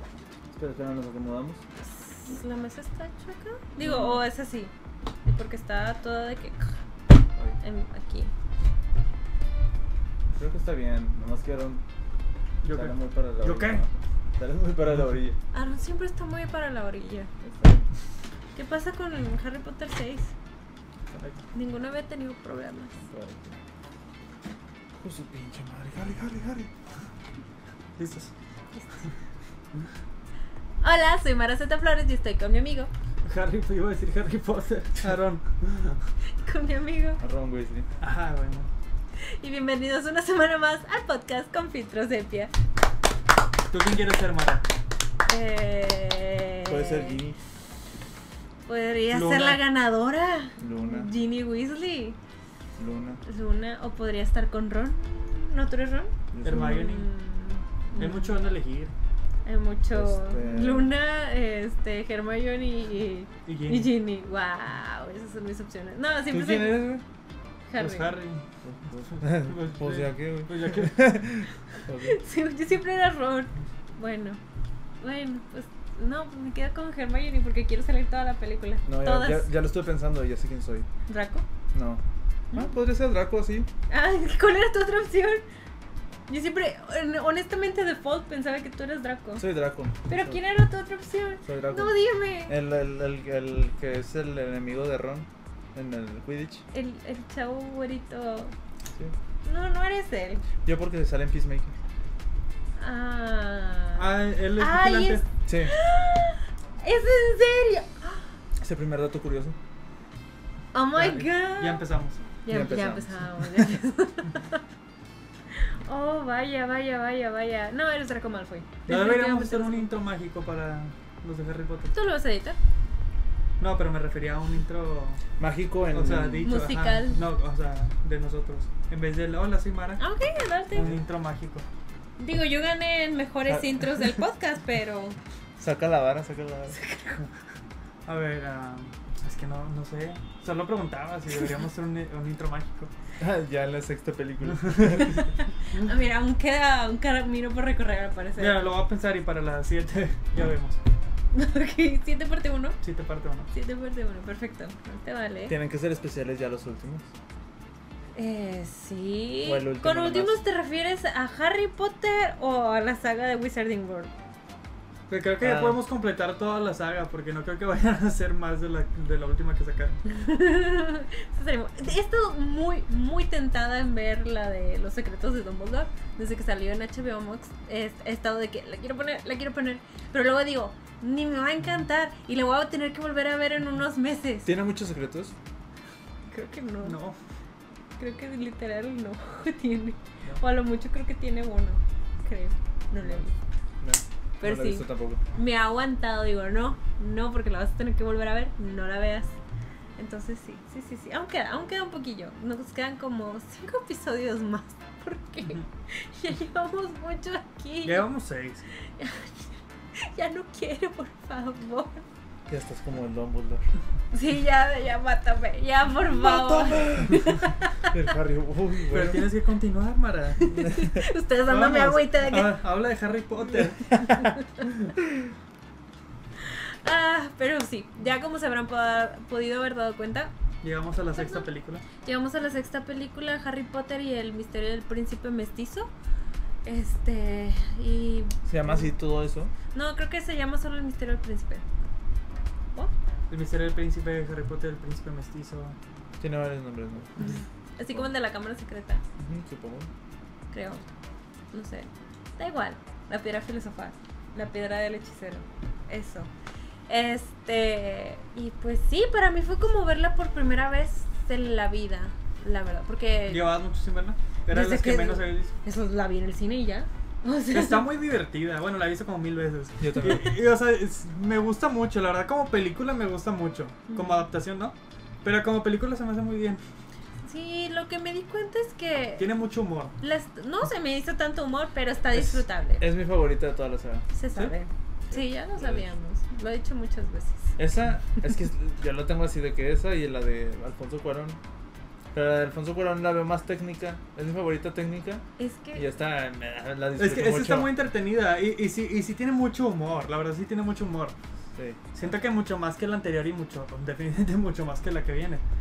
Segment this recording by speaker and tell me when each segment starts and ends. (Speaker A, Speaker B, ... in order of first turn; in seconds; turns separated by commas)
Speaker A: 0.5-1.6, Speaker B: 1.9-4.7, Speaker A: 3.8-4.2, Speaker B: 5.2-6.8, Speaker B: 7.6-8.3, Speaker A: 10.3-11.8, Speaker C: 12.6-13.8, Speaker A: 12.7-15.4, Speaker B: 15.5-17.8, Speaker B: 18.6-20.3, Speaker C: 21.1-21.4, Speaker B: 21.5-23.0, Speaker A: 23.1-23.6, Speaker A: 25.0-26.7, Speaker C: 28.0-28.3, Speaker B: 28.8-29.1, Speaker B: 30.8-32.9, Speaker C: 33.2-36.0, Speaker B: 36.4-37.2, Speaker A: 37.2-37.9, Speaker C: 38.0-38.7, Speaker B: 39.2-42.5, Speaker C: 43.7-44.6, Speaker B: 45.3-47.2, Speaker A: 46.7-47.4, Speaker B: 48.7-52.2, Speaker C: 49.1-49.6, Speaker A: 50.6-51.1, Speaker A: 52.8-53.2, Speaker B: 53.2-58.5, Speaker A: 56.3-56.8, Speaker C: 56.4-57.1, Speaker C: 58.0-58.9, Speaker B: 59.5-66.8, Speaker A: 59.9-60.9, Speaker C: 63.5-63.9, Speaker A: 66.3-67.0, Speaker B: 67.7-68.1, Speaker C: 67.8-68.5, Speaker A: 68.6-72.2, Speaker C: 69.1-71.4, Speaker B: 72.0-74.4, Speaker B: 75.0-79.5, Speaker A: 78.8-80.9, Speaker B: 81.1-81.4, Speaker A: 81.7-83.7, Speaker B: 83.9-85.4, Speaker B: 86.3-89.5, Speaker A: 89.4-90.4, Speaker B: 90.1-92.6, Speaker A: 91.5-96.6, Speaker B: 96.7-98.5, Speaker B: 99.4-100.4, Speaker A: 100.7-101.8, Speaker B: 102.8-108.2, Speaker C: 104.0-105.2, Speaker A: 105.5-105.7, Speaker A: 108.6-109.6, Speaker B: 110.7-111.8, Speaker C: 111.0-112.2, Speaker B: 112.5-114.6, Speaker A: 112.5-113.7, Speaker B: 115.5-119.9, Speaker C: 118.9-121.9, Speaker B: 121.9-122.6, Speaker C: 123.6-125.2, Speaker A: 125.4-126.5, Speaker C: 125.9-130.0, Speaker B: 126.4-127.2, Speaker B: 130.0-130.9, Speaker C: 130.7-131.7, Speaker B: 132.2-135.2, Speaker A: 133.5-134.2, Speaker A: 135.6-136.8, Speaker B: 136.7-137.3, Speaker C: 138.1-142.9, Speaker A: 143.2-145.3, Speaker C: 144.5-145.3, Speaker B: 145.7-148.6, Speaker C: 148.4-150.8, Speaker B: 151.3-152.8, Speaker C: 152.8-153.5, Speaker B: 153.5-155.5, Speaker A: 155.5-157.1, Speaker B: 158.2-164.1, Speaker A: 159.4-160.4, Speaker C: 165.1-170.0, Speaker A: 165.4-165.8, Speaker B: 170.1-184.5, Speaker A: 184.4-185.3, Speaker B: 186.3-187.0, Speaker C: 186.8-187.2, Speaker B: 188.0-193.3, Speaker A: 193.8-195.2, Speaker B: 194.4-199.4, Speaker B: 200.0-208.1, Speaker C: 207.8-208.7, Speaker B: 208.9-212.0, Speaker A: 212.5-213.7, Speaker B: 214.1-217.9, Speaker A: 216.1-217.2, Speaker A: 217.9-219.3, Speaker C: 218.9-220.8, Speaker B: 220.4-222.6, Speaker C: 221.5-224.3, Speaker B: 226.4-230.3, Speaker C: 230.6-231.8, Speaker B: 231.1-231.5, Speaker B: 232.0-235.9, Speaker B: 236.7-238.9, Speaker A: 238.5-239.5, Speaker B: 239.7-241.6, Speaker C: 243.3-245.8, Speaker A: 246.2-247.1, Speaker B: 247.2-249.0, Speaker A: 249.2-249.9, Speaker B: 250.5-250.8, Speaker B: 251.5-256.3, Speaker B: 256.9-263.5, Speaker C: 263.3-265.5, Speaker B: 264.5-267.9, Speaker C: 267.5-276.6, Speaker A: 269.8-270.3, Speaker B: 273.9-274.3, Speaker B: 277.2-279.3, Speaker C: 279.2-279.9, Speaker B: 280.0-282.8, Speaker A: 282.1-284.1, Speaker B: 284.1-287.6, Speaker A: 285.1-285.9, Speaker A: 287.6-291.4, Speaker A: 292.1-295.2, Speaker B: 295.4-295.9, Speaker A: 295.8-297.7, Speaker C: 297.0-301.1, Speaker A: 301.6-301.9, Speaker C: 301.9-305.4